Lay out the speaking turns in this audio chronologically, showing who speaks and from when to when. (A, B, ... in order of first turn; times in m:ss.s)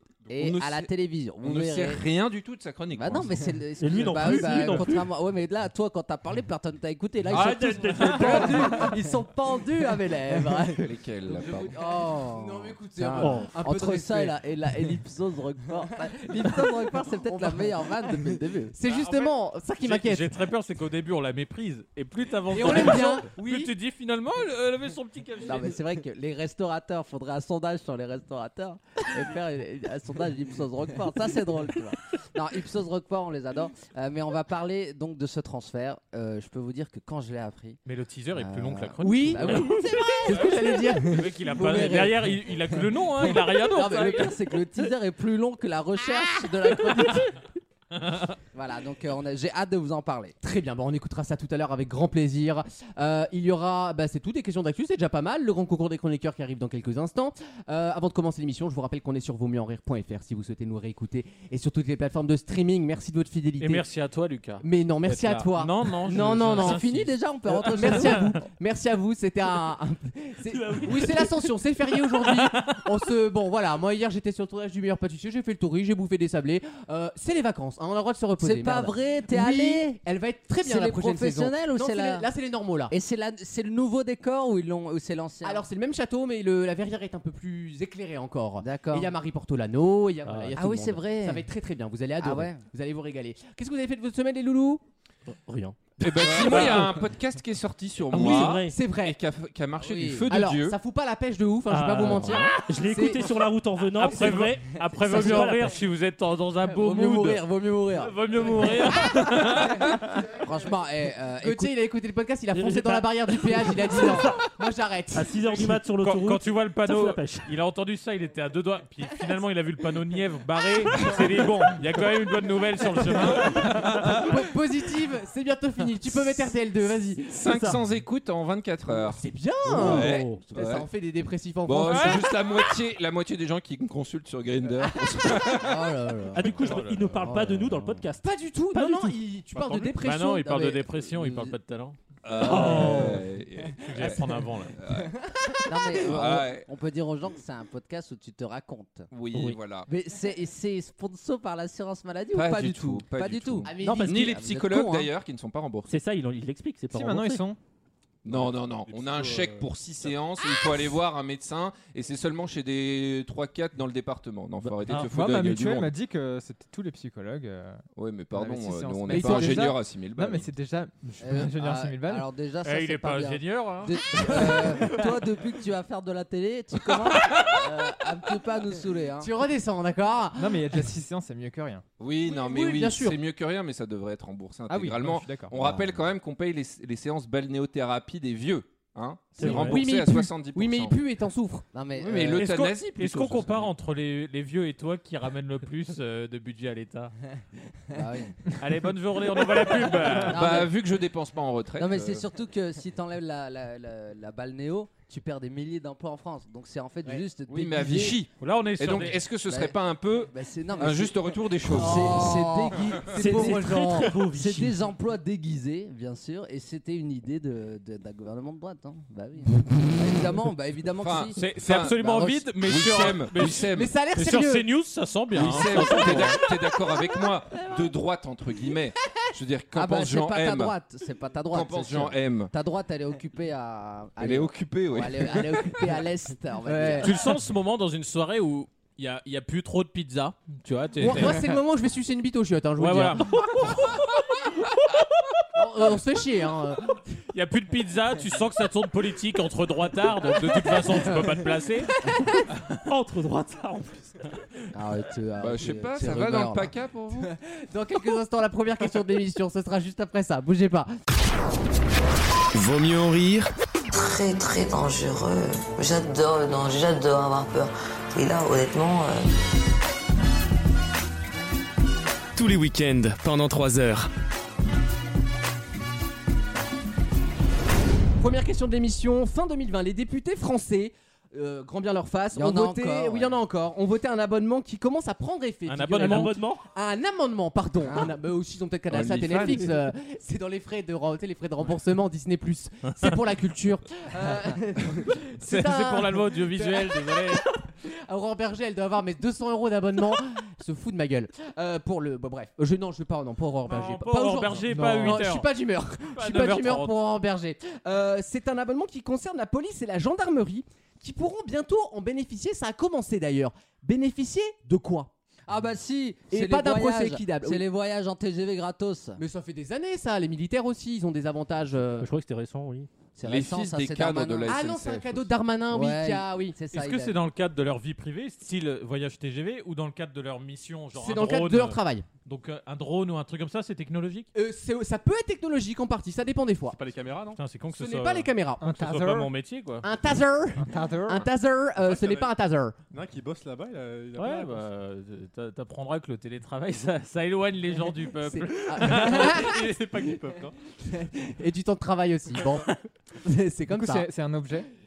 0:00.3-0:02.0 A
0:00.3-0:00.9 B
0:01.4-0:03.5 B
0:02.9-0:18.8 A
0:03.8-0:05.1 C
0:07.3-0:08.8 C
0:07.3-0:08.5 D
0:08.0-0:09.0 E
0:10.8-0:11.7 B
0:12.3-0:14.4 E
0:13.2-0:13.5 C
0:17.2-0:17.9 E
0:18.7-0:20.4 E
0:18.8-0:25.8 D
0:22.5-0:23.7 E
0:25.4-0:37.8 A
0:37.9-0:44.3 D
0:38.3-0:47.3 A
0:39.0-0:41.2 E
0:46.2-0:47.2 E
0:47.9-0:48.4 D
0:48.5-0:50.4 A
0:50.4-1:03.8 E
1:03.6-1:07.1 D
1:04.6-1:06.8 E
1:06.1-1:08.4 A
1:07.6-1:22.9 E
1:10.5-1:11.4 C
1:12.4-1:12.8 D
1:18.4-1:20.0 A
1:20.6-1:22.3 A
1:22.9-1:25.7 A
1:25.4-1:34.8 E
1:28.6-1:29.1 A
1:30.3-1:30.6 C
1:30.6-1:31.5 A
1:32.2-1:32.6 A
1:35.3-1:37.0 C
1:36.0-1:40.8 B
1:36.4-1:36.7 E
1:38.1-1:38.8 C
1:38.1-1:39.2 E
1:39.8-1:40.3 A
1:40.3-1:43.5 E
1:41.7-1:45.8 C
1:44.0-1:47.4 D
1:44.1-1:44.4 E
1:46.6-1:48.5 A
1:48.0-1:50.1 D
1:50.3-1:51.7 A
1:51.4-1:55.7 E
1:52.5-1:54.4 C
1:55.1-1:57.5 C
1:56.0-2:03.9 D
2:03.3-2:04.3 B
2:03.6-2:07.4 E
2:07.3-2:09.2 B
2:07.4-2:07.8 C
2:08.9-2:12.5 E
2:09.7-2:10.4 C
2:09.8-2:10.9 B
2:11.7-2:15.9 B
2:11.9-2:12.2 D
2:14.9-2:15.5 E
2:15.6-2:16.5 A
2:16.3-2:19.1 C
2:16.6-2:17.2 D
2:17.2-2:18.0 A
2:18.2-2:20.9 E
2:19.5-2:23.2 D
2:21.0-2:21.5 A
2:22.2-2:26.7 B
2:22.4-2:23.2 C
2:23.8-2:24.8 D
2:25.7-2:29.1 A
2:29.1-2:29.9 B
2:29.3-2:29.6 C
2:29.9-2:35.1 A
2:32.3-2:36.0 B
2:33.7-2:34.3 E
2:33.7-2:34.3 C
2:35.9-2:37.5 C
2:36.9-2:37.6 F
2:38.2-2:45.9 B
2:38.3-2:40.1 G
2:44.6-2:47.8 F
2:48.0-2:50.5 B
2:48.3-2:52.2 F
2:49.1-2:49.4 A
2:51.2-2:59.3 A
2:52.6-2:54.6 D
2:57.1-2:57.6 B
2:59.2-3:00.9 E
3:00.4-3:01.8 F
3:02.0-3:11.0 B
3:02.2-3:03.2 E
3:04.7-3:05.6 F
3:05.5-3:06.0 A
3:09.4-3:09.9 C
3:09.4-3:11.7 E
3:11.7-3:12.4 A
3:12.0-3:13.7 B
3:12.4-3:17.1 D
3:17.9-3:18.4 A
3:18.6-3:20.4 D
3:20.2-3:22.3 B
3:20.3-3:20.8 A
3:21.8-3:28.2 A
3:27.5-3:32.3 B
3:28.4-3:29.2 D
3:29.5-3:33.6 A
3:31.7-3:34.4 E
3:33.2-3:34.7 C
3:34.3-3:42.5 A
3:41.0-3:44.0 B
3:41.3-3:46.4 D
3:43.7-3:44.7 E
3:45.3-3:50.7 B
3:45.5-3:47.1 E
3:49.7-3:57.2 A
3:51.5-3:52.5 B
3:54.2-3:55.5 B
3:55.4-3:57.2 E
3:57.0-4:01.4 D
4:01.0-4:03.9 E
4:02.8-4:03.8 D
4:05.6-4:07.0 E
4:07.3-4:11.9 D
4:12.1-4:14.2 C
4:14.7-4:16.7 A
4:15.4-4:17.3 B
4:17.5-4:20.9 E
4:22.5-4:23.5 H
4:23.9-4:29.3 I
4:32.4-4:34.1 H
4:38.2-5:15.1 E
4:42.3-4:43.4 A
4:45.7-4:46.3 D
4:46.0-4:46.6 C
4:47.8-4:48.1 A
4:48.9-4:49.7 B
4:55.4-4:57.4 D
5:03.7-5:05.5 D
5:04.7-5:05.2 F
5:06.1-5:06.9 D
5:15.5-5:19.2 A
5:16.3-5:17.6 E
5:19.2-5:22.1 E
5:22.0-5:22.9 C
5:23.2-5:24.7 A
5:23.2-5:25.3 B
5:24.5-5:26.6 E
5:25.7-5:27.2 A
5:26.7-5:34.3 D
5:31.0-5:32.1 E
5:34.4-5:36.8 E
5:36.7-5:37.4 G
5:37.4-5:39.9 D
5:37.7-5:38.6 E
5:38.6-5:39.3 F
5:39.8-5:42.8 E
5:40.6-5:41.3 F
5:41.8-5:42.3 G
5:42.9-5:44.6 G
5:44.2-5:49.3 D
5:48.2-5:49.7 E
5:48.8-5:50.6 G
5:50.9-5:52.7 E
5:53.2-5:54.1 E
5:53.8-5:54.7 F